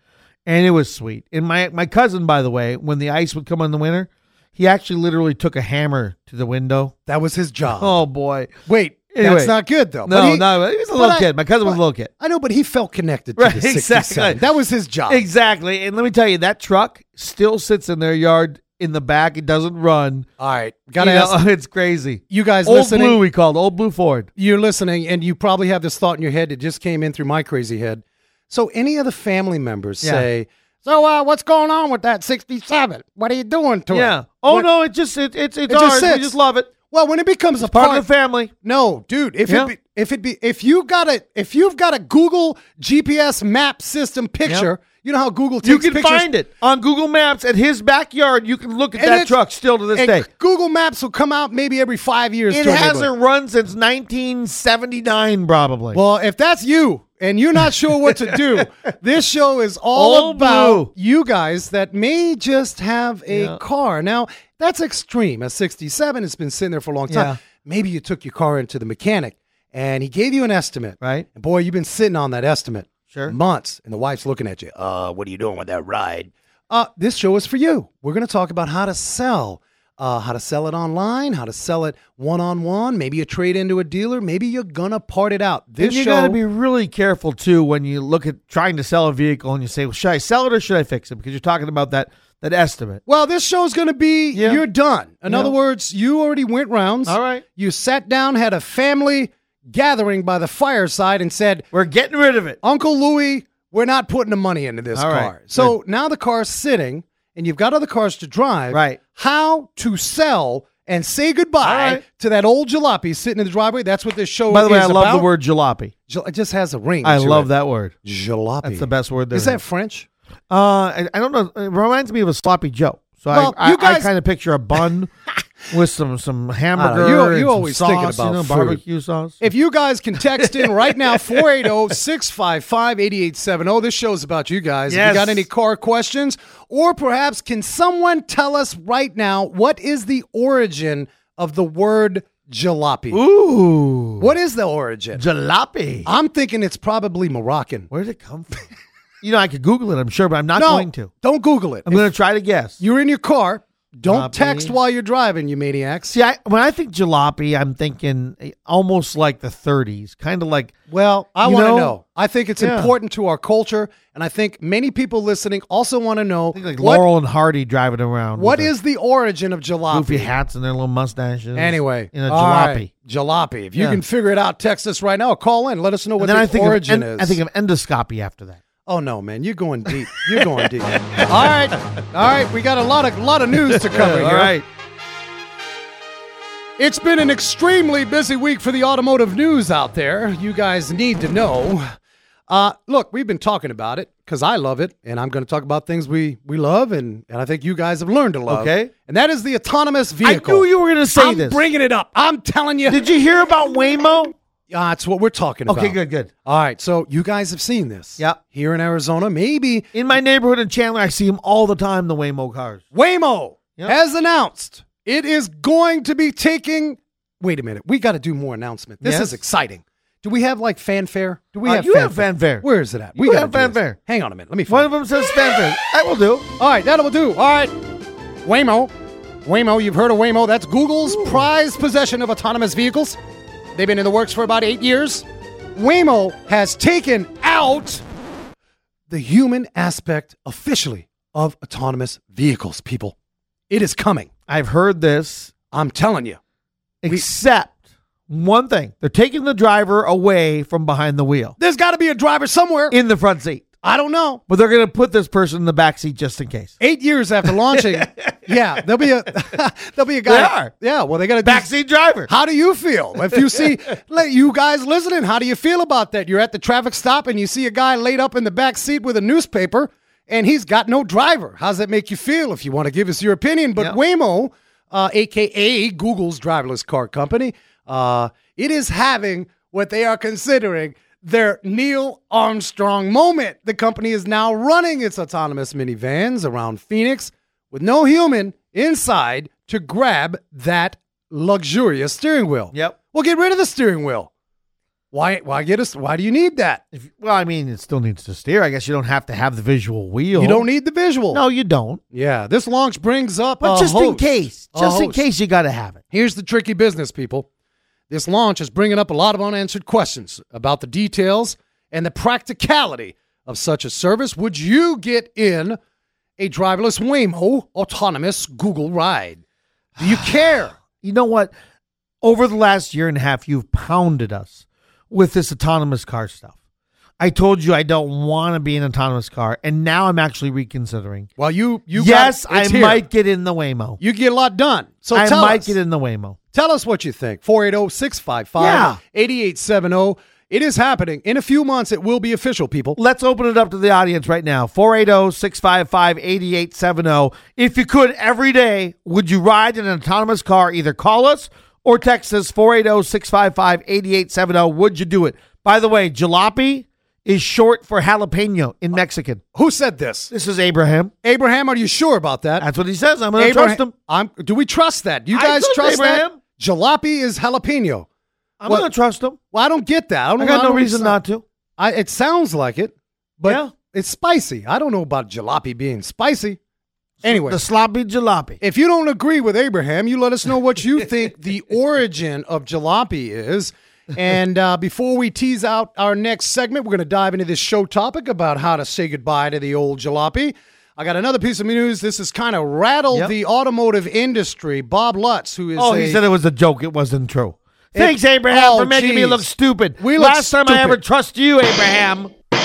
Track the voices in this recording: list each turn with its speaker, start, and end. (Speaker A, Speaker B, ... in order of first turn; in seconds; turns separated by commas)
Speaker A: 0.5-6.9, Speaker B: 7.1-8.0, Speaker A: 7.8-8.5, Speaker B: 8.7-15.2, Speaker A: 9.1-9.5, Speaker A: 10.1-12.1, Speaker A: 13.4-14.4, Speaker A: 15.1-20.2, Speaker B: 20.4-21.4, Speaker A: 21.0-24.3, Speaker B: 22.3-23.2, Speaker B: 24.4-34.7, Speaker A: 30.0-30.3, Speaker A: 33.9-36.7, Speaker B: 35.7-36.3, Speaker B: 36.9-38.1, Speaker A: 37.6-38.5, Speaker B: 38.6-46.3, Speaker A: 45.6-50.2, Speaker B: 49.0-49.4, Speaker B: 49.9-53.1, Speaker A: 52.5-56.0, Speaker B: 55.9-86.4, Speaker A: 58.0-58.9, Speaker A: 59.9-60.9, Speaker A: 63.3-63.6, Speaker A: 67.1-67.4, Speaker A: 71.0-71.2, Speaker A: 85.8-93.0, Speaker B: 93.0-101.7, Speaker A: 94.3-94.6, Speaker A: 95.3-95.5, Speaker A: 97.0-97.4, Speaker A: 101.7-102.6, Speaker B: 102.6-115.3, Speaker A: 104.9-105.7, Speaker A: 108.7-109.0, Speaker A: 111.6-112.0, Speaker A: 114.5-115.9, Speaker B: 116.1-117.5, Speaker A: 117.0-117.9, Speaker B: 118.0-120.1, Speaker A: 118.6-119.6, Speaker A: 120.5-125.1, Speaker B: 123.3-124.1, Speaker A: 125.7-129.4, Speaker B: 126.8-128.8, Speaker B: 129.4-143.2, Speaker A: 130.2-131.7, Speaker A: 134.9-135.5, Speaker A: 143.1-144.3, Speaker B: 144.2-145.2, Speaker A: 145.1-146.1, Speaker B: 146.0-147.9, Speaker A: 147.9-148.7, Speaker A: 149.2-151.1, Speaker B: 150.5-152.1, Speaker A: 151.8-152.8, Speaker B: 152.8-156.1, Speaker A: 154.1-154.7, Speaker A: 156.1-160.7, Speaker B: 160.9-167.0, Speaker A: 161.4-161.9, Speaker A: 162.6-162.9, Speaker A: 166.5-168.7, Speaker B: 168.3-170.3, Speaker A: 169.9-172.9, Speaker B: 171.5-177.4, Speaker A: 176.2-178.6, Speaker B: 178.8-184.5, Speaker A: 180.1-182.0, Speaker A: 183.7-184.6, Speaker B: 186.8-191.8, Speaker B: 192.5-203.0, Speaker A: 198.5-198.9, Speaker A: 200.2-201.6, Speaker A: 202.9-204.3, Speaker B: 204.7-209.9, Speaker A: 205.7-206.3, Speaker A: 209.9-212.8, Speaker B: 212.9-224.9, Speaker A: 219.0-219.4, Speaker A: 221.6-222.6, Speaker A: 223.2-224.0, Speaker A: 224.7-226.5, Speaker B: 226.6-227.7, Speaker B: 228.4-228.9, Speaker B: 229.4-233.2, Speaker A: 231.1-231.4, Speaker B: 233.7-235.2, Speaker B: 235.8-238.0, Speaker B: 239.1-243.1, Speaker B: 243.7-244.3, Speaker A: 244.5-245.5, Speaker B: 245.7-246.4, Speaker A: 247.0-247.8, Speaker A: 248.3-251.6, Speaker B: 251.6-252.9, Speaker A: 252.9-253.7, Speaker B: 253.8-254.4, Speaker A: 254.5-256.7, Speaker B: 256.8-261.7, Speaker A: 257.7-258.4, Speaker A: 260.3-260.7, Speaker A: 261.4-262.3, Speaker B: 262.3-294.3, Speaker B: 295.1-296.8, Speaker A: 296.9-300.6, Speaker B: 300.3-301.4, Speaker A: 301.3-302.0, Speaker B: 302.1-305.2, Speaker A: 303.6-306.0, Speaker B: 306.1-307.5, Speaker B: 308.1-315.8, Speaker B: 316.4-319.4, Speaker B: 320.0-320.7, Speaker A: 320.9-321.5, Speaker A: 322.2-324.6, Speaker A: 325.1-326.5, Speaker A: 327.2-331.3, Speaker B: 331.4-333.0, Speaker A: 331.9-334.0, Speaker B: 334.0-335.8, Speaker A: 335.1-336.4, Speaker B: 336.5-343.0, Speaker A: 338.6-339.0, Speaker A: 342.9-359.4, Speaker B: 359.5-360.3, Speaker A: 360.3-361.1, Speaker B: 361.2-362.6, Speaker A: 362.6-363.9, Speaker B: 363.4-368.1, Speaker A: 365.3-366.4, Speaker A: 368.6-369.4, Speaker B: 369.5-371.2, Speaker A: 370.4-371.4, Speaker B: 371.8-376.6, Speaker A: 373.5-373.7, Speaker A: 377.2-378.6, Speaker B: 377.2-377.6, Speaker B: 378.6-396.2, Speaker A: 395.8-402.3, Speaker B: 397.9-399.5, Speaker B: 400.0-401.0